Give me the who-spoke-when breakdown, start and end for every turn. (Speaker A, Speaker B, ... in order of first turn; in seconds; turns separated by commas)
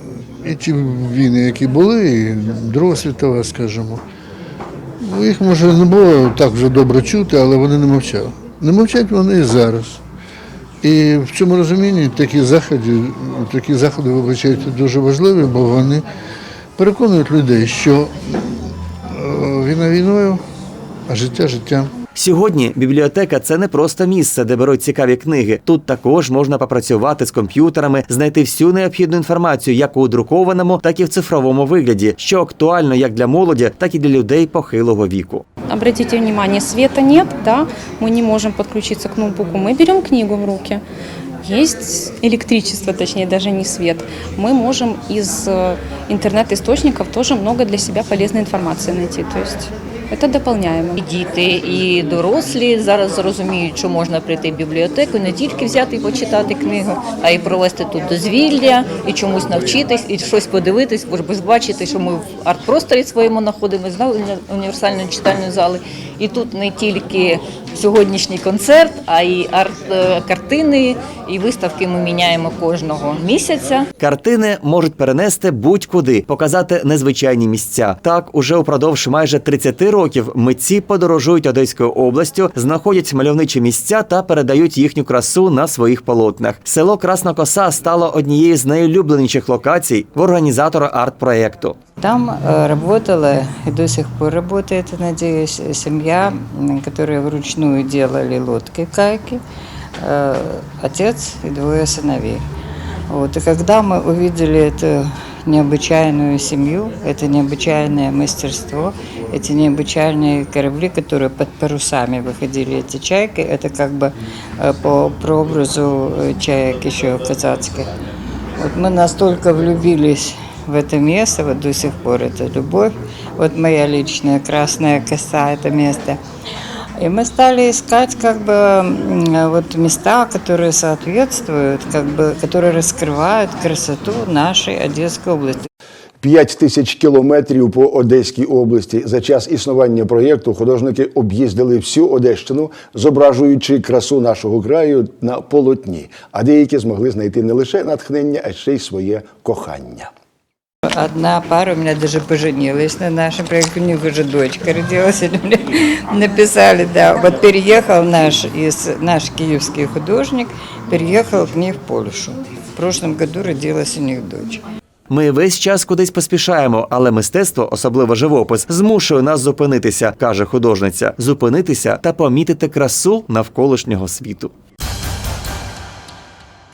Speaker A: 0.4-4.0, Speaker A: 5.0-10.0, Speaker A: 10.8-16.1, Speaker A: 16.8-20.4, Speaker A: 21.1-21.9, Speaker B: 22.2-35.5, Speaker C: 35.7-40.8, Speaker C: 41.4-51.0, Speaker D: 51.0-73.9, Speaker B: 74.0-91.8, Speaker E: 92.0-99.4, Speaker E: 100.0-102.5, Speaker E: 103.1-117.9, Speaker E: 118.6-126.2, Speaker E: 127.0-135.7, Speaker F: 136.2-150.1, Speaker E: 150.9-164.6, Speaker B: 165.1-174.5